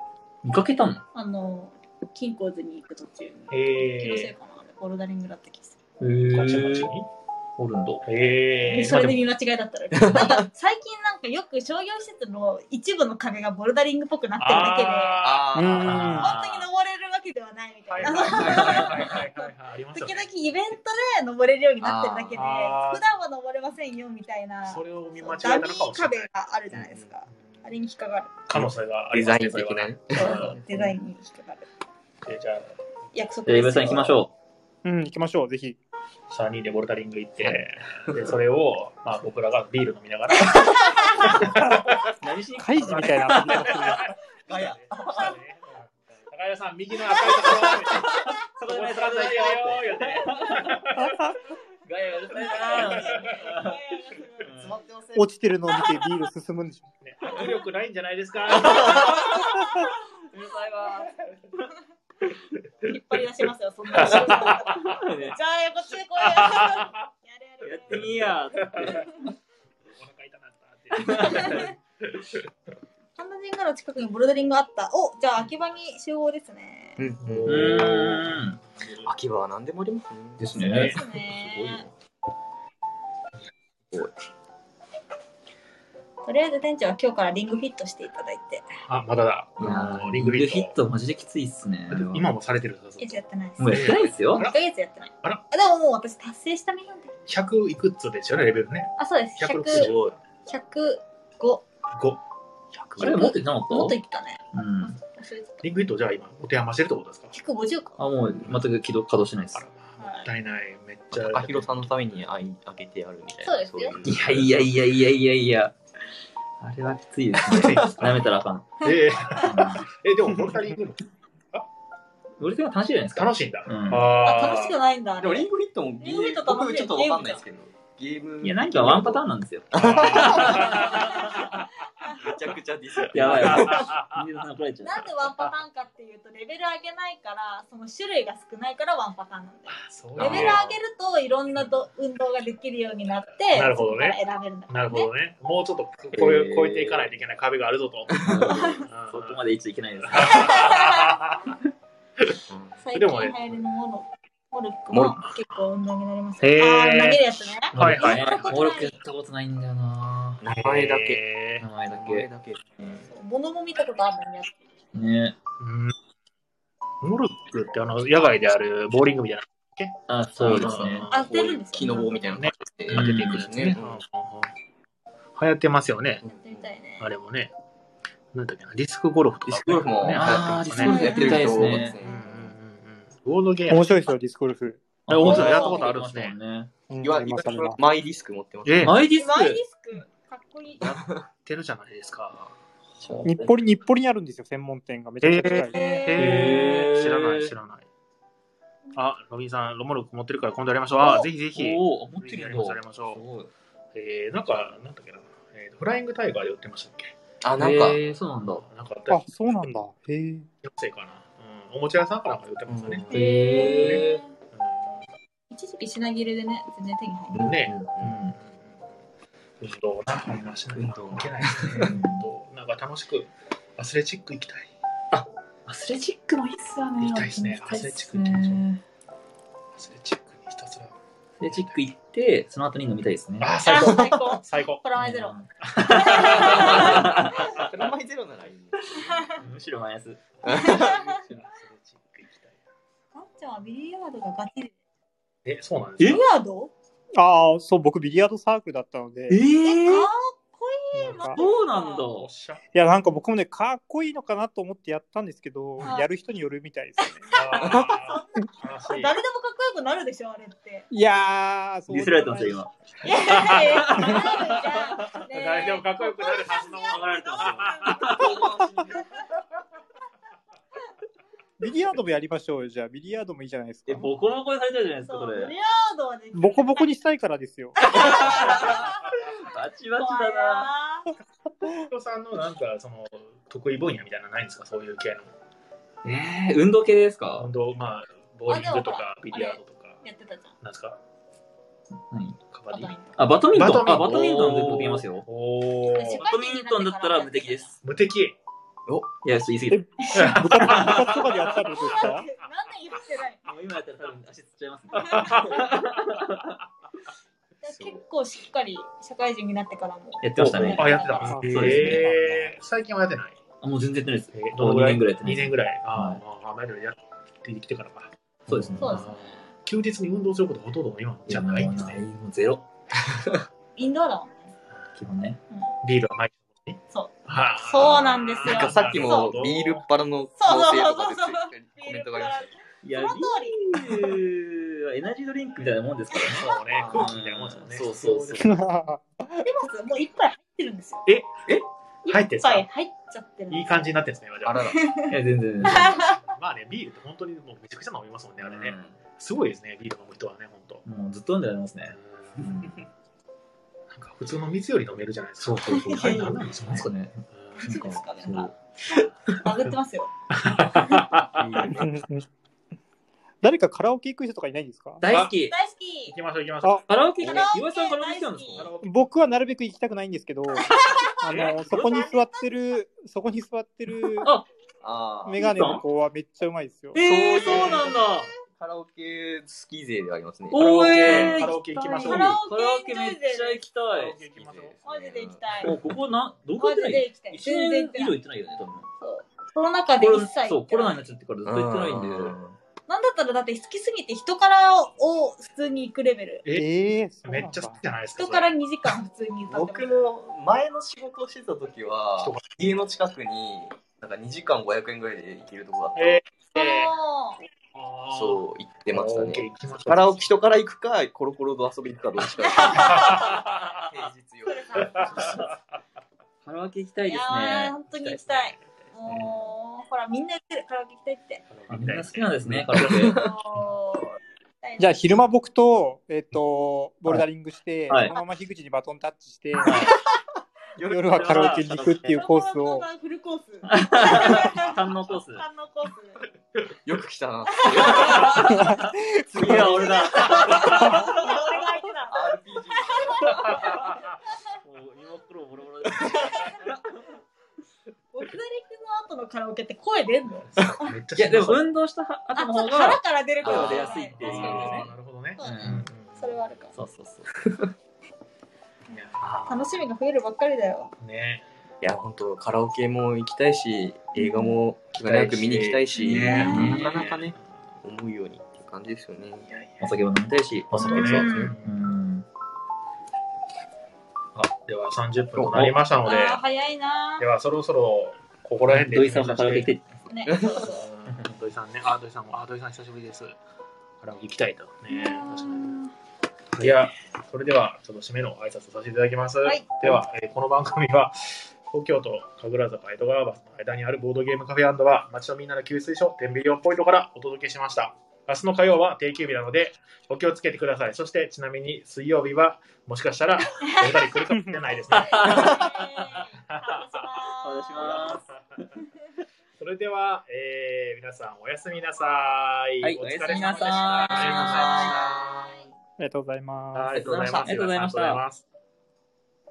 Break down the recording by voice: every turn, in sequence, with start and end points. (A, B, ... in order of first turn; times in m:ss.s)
0:00.4-0:01.0 A
0:01.1-0:05.8 B
0:03.5-0:04.3 C
0:06.0-0:06.9 A
0:06.3-0:07.1 C
0:07.6-0:08.0 A
0:08.0-0:09.3 C
0:08.7-0:15.3 B
0:09.9-0:10.5 D
0:14.4-0:15.9 C
0:15.2-0:16.2 D
0:15.5-0:16.3 E
0:15.8-0:16.7 A
0:16.1-0:28.5 B
0:17.9-0:20.3 C
0:18.1-0:19.2 A
0:21.8-0:22.4 D
0:22.3-0:23.0 C
0:24.6-0:26.3 C
0:26.7-0:27.1 D
0:28.5-0:30.6 C
0:28.5-0:30.9 D
0:30.1-0:31.7 B
0:32.2-0:32.8 C
0:33.1-0:34.2 B
0:33.4-0:34.3 A
0:34.8-0:35.8 E
0:36.3-0:42.1 C
0:40.5-0:41.4 B
0:41.6-0:43.8 A
0:42.6-0:44.1 E
0:42.8-0:43.9 C
0:44.5-0:45.3 D
0:44.5-0:51.3 C
0:47.1-0:48.3 B
0:48.4-0:51.1 A
0:51.8-0:53.8 A
0:52.4-0:54.6 B
0:52.9-0:53.4 C
0:54.4-0:54.7 A
0:54.6-0:55.3 D
0:55.2-0:56.8 E
0:57.0-0:59.6 C
0:58.9-1:01.1 A
1:02.8-1:09.1 B
1:03.9-1:05.0 C
1:04.0-1:05.4 A
1:06.2-1:06.9 C
1:07.6-1:09.2 A
1:08.6-1:09.0 C
1:09.9-1:12.4 C
1:11.0-1:11.7 B
1:11.1-1:11.6 A
1:13.2-1:17.0 B
1:17.0-1:17.8 D
1:17.2-1:19.1 C
1:17.4-1:18.6 A
1:19.0-1:21.0 D
1:20.4-1:21.9 A
1:20.6-1:21.9 B
1:26.2-1:28.6 B
1:28.8-1:30.7 C
1:29.6-1:29.9 D
1:29.6-1:32.3 A
1:31.9-1:34.6 C
1:33.0-1:37.1 B
1:33.6-1:34.4 A
1:37.2-1:40.2 C
1:39.0-1:39.9 B
1:39.7-1:40.1 D
1:40.5-1:41.6 B
1:41.9-1:42.2 C
1:42.8-1:43.3 D
1:43.0-1:44.0 A
1:43.0-1:45.6 B
1:44.5-1:45.0 A
1:45.6-1:47.3 C
1:47.3-1:48.0 B
1:48.0-1:49.6 A
1:49.5-1:51.9 C
1:50.0-1:50.3 B
1:51.2-1:54.6 D
1:53.4-1:54.0 B
1:54.0-1:55.7 A
1:56.6-1:59.9 A
1:57.4-1:57.9 D
1:57.5-1:58.2 C
1:58.8-2:01.7 C
2:02.4-2:04.1 A
2:03.1-2:04.8 C
2:04.2-2:07.4 B
2:05.2-2:10.8 D
2:08.4-2:11.4 A
2:09.7-2:11.6 C
2:10.8-2:12.3 B
2:12.2-2:13.9 D
2:13.1-2:15.0 A
2:13.2-2:14.2 C
2:14.8-2:25.1 B
2:19.7-2:20.7 C
2:20.2-2:20.7 A
2:23.5-2:29.4 C
2:26.2-2:26.9 A
2:28.1-2:28.5 D
2:28.2-2:30.7 A
2:28.4-2:28.9 B
2:30.0-2:31.6 C
2:30.1-2:31.2 B
2:32.5-2:32.8 D
2:32.8-2:39.0 B
2:32.9-2:33.6 C
2:34.9-2:35.2 D
2:36.4-2:37.2 C
2:37.7-2:40.4 A
2:37.7-2:38.4 C
2:40.4-2:41.2 D
2:40.6-2:41.6 C
2:41.6-2:42.3 A
2:41.9-2:43.0 D
2:43.0-2:44.6 B
2:44.9-2:45.4 A
2:45.6-2:45.9 C
2:47.0-2:51.2 C
2:50.1-2:51.1 A
2:50.4-2:53.8 D
2:51.1-2:52.4 B
2:52.4-2:54.5 C
2:52.9-2:53.8 A
2:55.4-2:56.2 C
2:56.2-2:56.7 D
2:56.3-2:57.1 B
2:57.0-2:57.5 C
2:58.3-3:01.4 C
2:59.5-3:02.5 D
3:00.1-3:02.0 A
3:00.8-3:02.3 B
3:02.0-3:04.1 C
3:03.7-3:04.8 E
3:05.1-3:06.7 A
3:05.1-3:06.3 C
3:05.2-3:05.9 B
3:06.9-3:07.8 E
3:07.0-3:09.0 D
3:08.6-3:09.0 C
3:08.8-3:09.6 A
3:09.1-3:10.9 B
3:10.8-3:12.5 C
3:10.8-3:11.2 D
3:13.0-3:13.5 A
3:13.2-3:16.1 E
3:15.2-3:17.9 C
3:15.7-3:16.6 B
3:16.1-3:17.5 A
3:18.9-3:23.2 C
3:21.0-3:23.5 A
3:23.9-3:27.2 C
3:27.4-3:28.0 D
3:27.6-3:28.6 A
3:28.6-3:29.2 C
3:29.1-3:30.5 E
3:30.6-3:35.0 C
3:32.7-3:33.3 D
3:33.1-3:34.2 A
3:33.1-3:34.3 B
3:35.5-3:37.5 B
3:37.3-3:38.2 D
3:37.4-3:38.7 C
3:39.6-3:44.7 C
3:40.8-3:42.0 D
3:41.8-3:42.2 A
3:45.1-3:48.8 A
3:47.0-3:48.6 C
3:49.7-3:51.0 C
3:51.4-3:53.6 A
3:51.5-3:51.8 C
3:53.4-3:54.8 C
3:53.6-3:57.6 B
3:55.0-3:57.7 A
3:55.6-3:57.1 C
3:56.7-3:59.3 D
3:59.0-3:59.4 B
3:59.3-4:00.2 A
4:00.4-4:01.4 D
4:00.5-4:01.0 B
4:00.5-4:02.6 C
4:03.1-4:04.7 B
4:05.4-4:06.2 C
4:06.0-4:06.7 B
4:07.2-4:09.4 E
4:09.3-4:10.1 A
4:09.6-4:12.1 B
4:10.9-4:11.4 E
4:11.1-4:12.3 A
4:12.0-4:12.6 C
4:12.7-4:17.8 E
4:15.8-4:16.1 B
4:17.3-4:20.9 B
4:17.3-4:19.2 C
4:20.9-4:22.7 E
4:21.9-4:25.2 A
4:23.0-4:29.2 B
4:23.0-4:24.4 C
4:25.3-4:28.1 C
4:26.9-4:28.4 A
4:28.1-4:29.0 D
4:31.6-4:34.2 E
4:33.9-4:35.5 A
4:35.0-4:36.9 B
4:36.3-4:37.8 E
4:37.8-4:39.0 B
4:37.8-4:40.7 A
4:40.0-4:41.1 B
4:41.9-4:45.3 C
4:46.0-4:47.5 A
4:47.4-4:50.0 C
4:48.5-4:50.6 B
4:50.6-4:51.0 C
4:52.1-4:52.4 A
4:52.5-4:56.3 C
4:52.7-4:53.2 B
4:53.0-4:55.2 A
4:55.8-4:57.7 B
4:56.2-4:57.8 A
4:57.8-4:58.4 C
4:58.9-4:59.1 D
4:59.2-5:01.6 A
4:59.7-5:02.3 E
5:00.1-5:01.2 C
5:01.8-5:03.4 B
5:03.4-5:06.6 A
5:05.0-5:06.0 C
5:05.0-5:05.4 B
5:07.6-5:11.6 B
5:07.7-5:08.0 D
5:10.2-5:12.1 A
5:10.4-5:13.4 C
5:11.3-5:12.0 E
5:11.4-5:12.0 D
5:13.6-5:16.2 A
5:14.3-5:22.0 C
5:18.5-5:19.1 A
5:18.8-5:19.4 B
5:21.3-5:22.6 A
5:23.0-5:23.4 D
5:23.8-5:24.5 B
5:25.0-5:25.4 A
5:25.8-5:29.8 C
5:26.9-5:29.4 B
5:28.4-5:32.5 D
5:30.4-5:34.2 B
5:32.8-5:38.5 A
5:36.2-5:38.5 C
5:36.7-5:37.1 D
5:37.7-5:38.4 D
5:38.4-5:39.4 E
5:39.4-5:41.0 B
5:41.0-5:41.4 C
5:42.0-5:43.8 B
5:42.1-5:42.7 C
5:43.5-5:44.8 C
5:44.4-5:44.9 D
5:44.6-5:46.2 B
5:45.1-5:46.0 A
5:45.7-5:50.8 C
5:48.4-5:49.0 A
5:50.8-5:52.7 A
5:52.1-5:52.7 C
5:53.9-5:58.0 C
5:55.4-5:58.5 A
5:55.6-5:56.4 B
5:57.6-6:00.1 B
6:00.3-6:01.5 C
6:01.2-6:02.1 D
6:01.7-6:02.2 E
6:03.4-6:05.0 E
6:05.0-6:05.5 A
6:05.0-6:05.3 C
6:05.1-6:06.1 B
6:06.1-6:07.5 C
6:06.9-6:08.7 A
6:07.2-6:08.7 B
6:08.6-6:09.1 C
6:08.8-6:10.7 E
6:10.6-6:12.6 B
6:11.2-6:14.3 E
6:14.8-6:15.5 D
6:15.2-6:17.0 E
6:15.3-6:15.8 A
6:16.9-6:18.3 A
6:17.0-6:18.0 D
6:17.3-6:18.0 B
6:18.5-6:21.5 D
6:20.5-6:24.2 A
6:20.6-6:23.6 B
6:21.0-6:22.4 C
6:23.9-6:24.8 C
6:24.3-6:25.7 D
6:24.8-6:25.8 B
6:25.6-6:28.9 A
6:26.6-6:28.1 B
6:29.0-6:31.0 B
6:30.0-6:32.4 A
6:31.4-6:32.5 D
6:32.9-6:36.4 B
6:36.5-6:37.8 E
6:37.2-6:38.5 C
6:38.2-6:40.1 B
6:39.5-6:46.2 D
6:42.2-6:42.5 C
6:46.0-6:46.9 C
6:46.5-6:47.4 B
6:47.7-6:50.3 C
6:48.1-6:55.5 D
6:52.4-6:53.5 B
6:52.6-6:53.6 C
6:54.5-6:55.4 B
6:54.9-6:55.5 C
6:56.4-6:58.4 A
6:57.1-7:01.4 B
6:58.6-6:59.3 C
6:59.1-6:59.3 A
7:01.5-7:03.1 C
7:01.7-7:03.2 A
7:02.6-7:03.4 D
7:03.2-7:04.9 B
7:04.8-7:09.9 E
7:07.9-7:08.1 A
7:09.6-7:09.9 A
7:10.8-7:11.7 D
7:10.8-7:12.8 E
7:11.1-7:12.1 A
7:12.0-7:16.2 B
7:13.7-7:15.4 A
7:16.8-7:18.5 D
7:17.6-7:18.3 B
7:17.8-7:21.4 A
7:18.5-7:19.9 E
7:19.7-7:24.5 B
7:22.1-7:23.6 D
7:24.6-7:27.0 A
7:26.0-7:26.6 B
7:28.1-7:31.0 B
7:30.5-7:31.7 C
7:31.2-7:35.8 A
7:32.4-7:36.7 B
7:33.5-7:33.8 D
7:33.5-7:36.3 C
7:36.7-7:37.5 A
7:37.4-7:37.7 D
7:38.9-7:39.2 C
7:39.2-7:39.7 D
7:39.4-7:40.9 B
7:41.0-7:41.4 C
7:41.8-7:49.6 D
7:44.2-7:44.6 B
7:45.0-7:47.2 C
7:45.9-7:46.8 B
7:46.0-7:47.2 A
7:49.8-7:52.2 A
7:50.7-7:51.5 D
7:50.8-7:51.7 C
7:50.8-7:51.5 B
7:54.3-7:56.4 C
7:55.4-7:55.7 D
7:56.0-7:57.3 B
7:57.2-7:59.8 C
7:58.7-7:59.9 A
8:00.1-8:00.9 B
8:00.3-8:00.6 D
8:00.6-8:03.4 C
8:04.0-8:05.8 C
8:04.9-8:05.9 B
8:06.6-8:27.2 C
8:09.4-8:09.9 B
8:24.3-8:24.6 E
8:24.9-8:28.2 B
8:24.9-8:26.0 A
8:27.4-8:28.7 A
8:27.8-8:28.3 C
8:29.6-8:35.3 C
8:32.8-8:35.0 A
8:33.3-8:35.7 B
8:34.1-8:35.5 D
8:36.0-8:37.0 E
8:36.7-8:38.4 C
8:36.9-8:38.2 A